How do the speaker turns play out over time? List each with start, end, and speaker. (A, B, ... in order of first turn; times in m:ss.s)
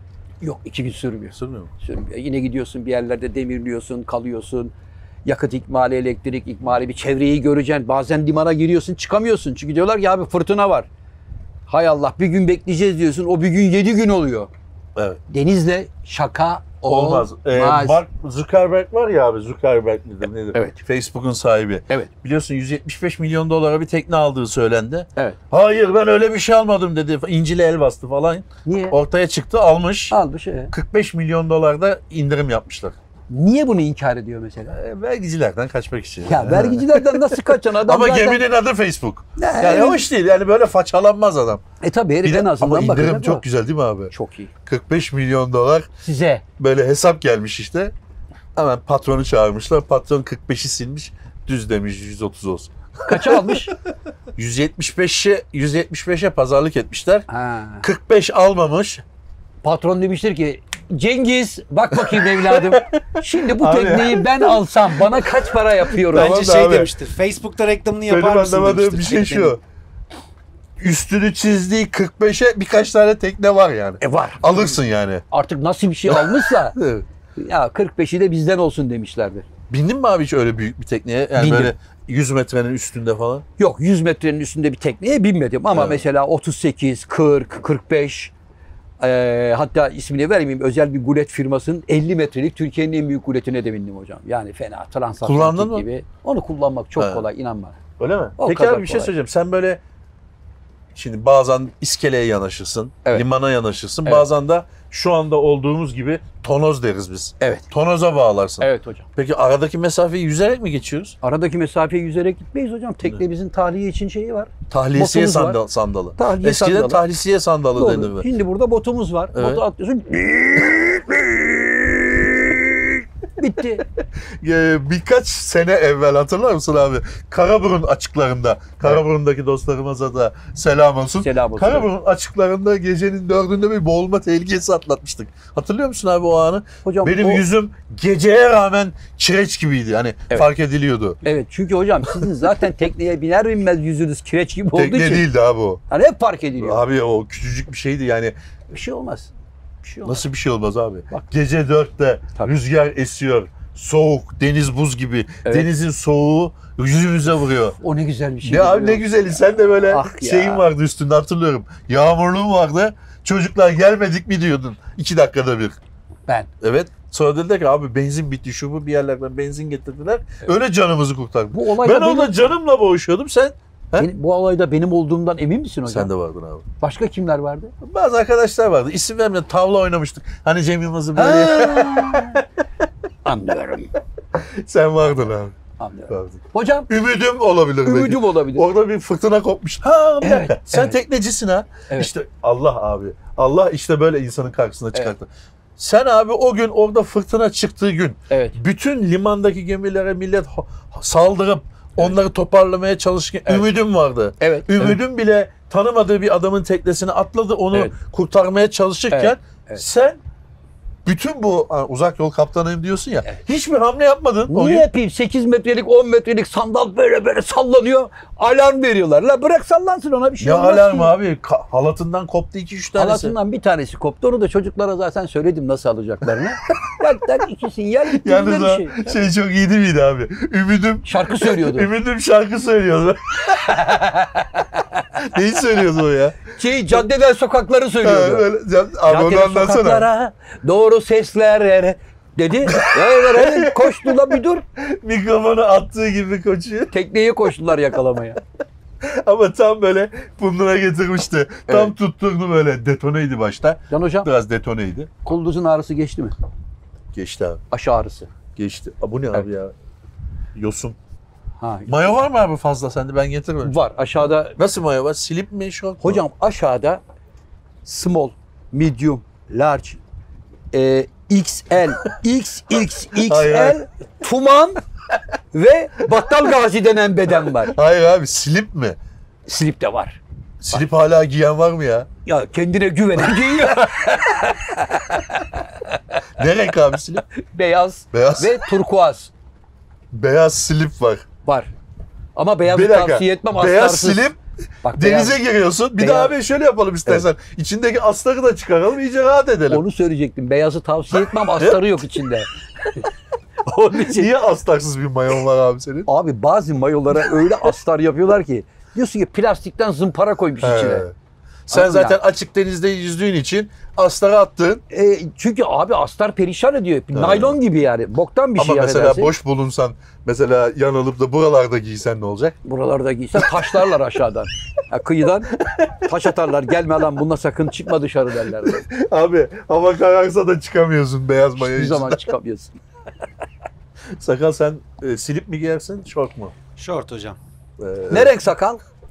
0:00.4-0:04.7 A
0:01.3-0:01.7 B
0:05.2-0:10.9 A
0:11.7-0:14.5 A
0:15.0-0:15.2 B
0:15.3-0:18.0 A
0:16.8-0:30.2 B
0:28.6-0:29.0 A
0:30.1-0:30.7 A
0:30.7-0:33.0 B
0:33.3-0:34.8 A
0:34.7-0:41.6 B
0:36.2-0:38.4 A
0:39.4-0:40.0 A
0:41.8-0:43.4 A
0:42.2-0:44.1 B
0:44.1-0:44.5 A
0:44.6-0:45.9 B
0:46.0-0:46.4 A
0:46.6-0:47.9 B
0:48.6-0:53.7 B
0:53.1-0:53.7 A
0:54.4-0:57.2 B
0:57.3-0:57.9 A
0:57.8-0:59.0 B
0:59.6-1:06.4 A
1:01.9-1:06.9 B
1:06.1-1:09.6 C
1:08.1-1:09.6 B
1:10.8-1:15.2 B
1:14.0-1:14.6 A
1:15.3-1:16.8 A
1:16.1-1:17.0 B
1:17.4-1:19.4 A
1:19.7-1:23.4 B
1:21.4-1:21.7 A
1:23.6-1:28.3 A
1:25.7-1:26.0 B
1:29.0-1:37.8 A
1:35.2-1:35.9 B
1:37.0-1:37.2 B
1:38.0-1:39.8 B
1:38.4-1:39.1 A
1:40.9-1:51.2 B
1:47.4-1:47.7 A
1:48.6-1:49.1 A
1:51.2-1:55.6 A
1:54.7-1:58.3 B
1:56.2-1:57.0 A
1:57.8-2:03.9 A
1:59.3-1:59.6 B
2:04.4-2:21.2 B
2:11.2-2:11.9 A
2:16.8-2:17.4 A
2:21.2-2:25.3 A
2:24.7-2:25.8 B
2:25.9-2:26.8 A
2:26.6-2:28.3 B
2:28.7-2:29.3 A
2:29.8-2:30.2 A
2:30.0-2:37.8 B
2:37.8-2:39.4 A
2:38.4-2:45.8 B
2:39.9-2:40.6 A
2:46.6-2:54.1 B
2:51.5-2:52.5 A
2:54.0-2:56.1 A
2:55.9-2:56.7 B
2:56.8-2:57.7 A
2:57.8-3:02.4 B
3:01.1-3:02.4 A
3:03.2-3:03.9 A
3:04.4-3:05.6 B
3:05.8-3:06.9 A
3:06.1-3:30.2 B
3:07.8-3:08.7 A
3:10.2-3:11.0 A
3:18.3-3:18.6 A
3:24.4-3:25.0 A
3:29.1-3:29.8 A
3:31.0-3:34.9 B
3:34.5-3:41.1 A
3:40.4-3:43.4 B
3:43.0-3:49.2 A
3:48.1-3:54.1 B
3:51.0-3:51.9 A
3:53.6-3:55.2 A
3:55.1-3:56.4 B
3:56.5-3:58.4 A
3:58.0-4:00.1 B
3:59.1-4:04.6 A
4:02.6-4:06.9 B
4:06.9-4:08.4 A
4:09.0-4:15.1 B
4:11.7-4:11.9 A
4:13.9-4:14.3 A
4:15.2-4:16.3 A
4:17.1-4:17.6 B
4:17.7-4:18.3 A
4:18.6-4:19.7 B
4:20.6-4:21.0 B
4:21.6-4:22.1 A
4:21.9-4:26.2 B
4:23.6-4:24.6 A
4:26.0-4:27.0 A
4:27.8-4:30.0 A
4:30.7-4:34.8 A
4:33.1-4:33.8 B
4:35.5-4:37.7 A
4:37.4-4:39.0 B
4:39.4-4:40.2 A
4:40.6-4:42.1 B
4:42.2-4:46.2 A
4:46.4-4:47.2 B
4:47.2-4:49.3 A
4:48.1-4:48.7 B
4:50.1-4:51.2 B
4:51.4-4:51.7 A
4:52.4-4:54.2 A
4:52.6-4:59.8 B
4:54.8-4:55.4 A
4:56.0-4:56.3 A
4:59.7-5:03.1 A
5:01.1-5:02.3 B
5:03.6-5:04.3 A
5:03.9-5:06.1 B
5:06.1-5:11.1 A
5:10.6-5:11.1 B
5:11.7-5:14.8 B
5:11.7-5:12.2 A
5:14.9-5:19.3 A
5:17.1-5:17.6 B
5:18.6-5:22.6 B
5:22.6-5:28.8 A
5:23.4-5:23.9 B
5:25.5-5:26.1 B
5:28.6-5:32.3 B
5:31.6-5:32.8 A
5:34.1-5:36.5 B
5:36.8-5:37.4 C
5:37.8-5:38.4 B
5:38.1-5:38.8 A